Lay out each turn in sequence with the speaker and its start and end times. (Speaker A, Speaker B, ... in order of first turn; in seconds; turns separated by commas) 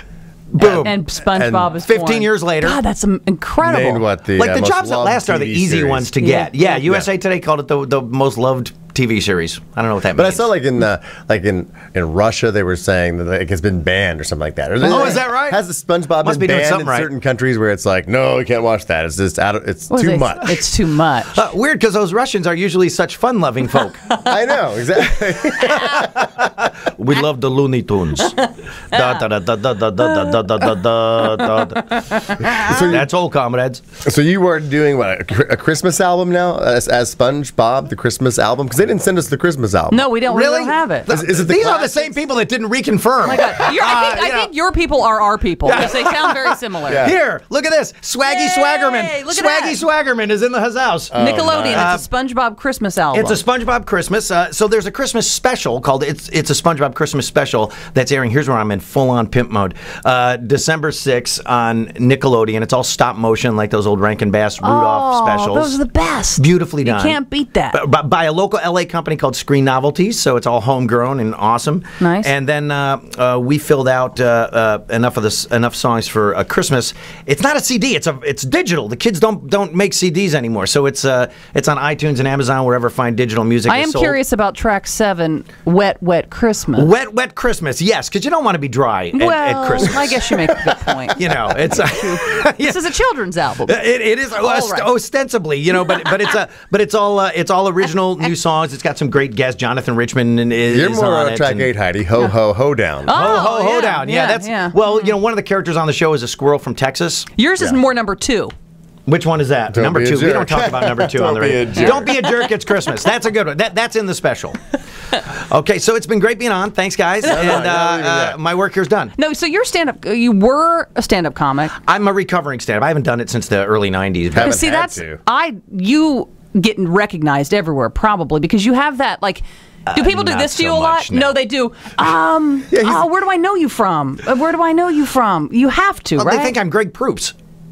Speaker A: 0.5-1.0, Speaker B: 0.6-1.8, Speaker C: 0.8-4.0, Speaker A: 1.9-2.8, Speaker B: 3.6-6.1, Speaker A: 4.3-10.5, Speaker C: 6.2-6.8, Speaker B: 6.8-7.1, Speaker B: 10.2-20.6, Speaker A: 14.8-15.6, Speaker C: 14.9-15.2, Speaker A: 16.2-17.1, Speaker C: 19.9-21.5, Speaker A: 21.2-24.0, Speaker C: 24.1-24.4, Speaker B: 24.3-26.3, Speaker C: 25.7-26.0, Speaker A: 25.7-28.4, Speaker C: 28.2-29.2, Speaker A: 28.9-33.8, Speaker C: 30.0-32.9, Speaker B: 32.5-33.1, Speaker B: 34.0-40.1, Speaker C: 39.9-41.1, Speaker A: 40.3-44.5, Speaker B: 41.1-42.1, Speaker C: 43.2-47.1, Speaker A: 45.6-52.1, Speaker B: 46.9-47.1, Speaker C: 48.2-49.8, Speaker B: 51.1-52.0, Speaker C: 51.1-53.4, Speaker A: 53.1-65.8, Speaker C: 64.6-67.8, Speaker A: 66.3-67.2, Speaker A: 67.7-84.2, Speaker C: 72.0-72.3, Speaker C: 83.7-86.9, Speaker A: 86.8-90.5, Speaker C: 89.1-94.9, Speaker A: 91.1-92.8, Speaker A: 93.6-101.7, Speaker C: 95.8-96.3, Speaker B: 100.7-103.4, Speaker C: 103.1-105.1, Speaker A: 103.1-107.3, Speaker C: 107.4-108.5, Speaker A: 109.1-114.6, Speaker B: 109.7-112.1, Speaker C: 111.8-112.5, Speaker A: 115.3-119.1, Speaker C: 117.2-117.6, Speaker B: 117.3-118.4, Speaker C: 119.2-121.7, Speaker A: 121.8-124.6, Speaker B: 124.3-125.2, Speaker C: 124.4-136.5, Speaker A: 129.9-131.4, Speaker B: 132.7-133.1, Speaker A: 136.2-137.3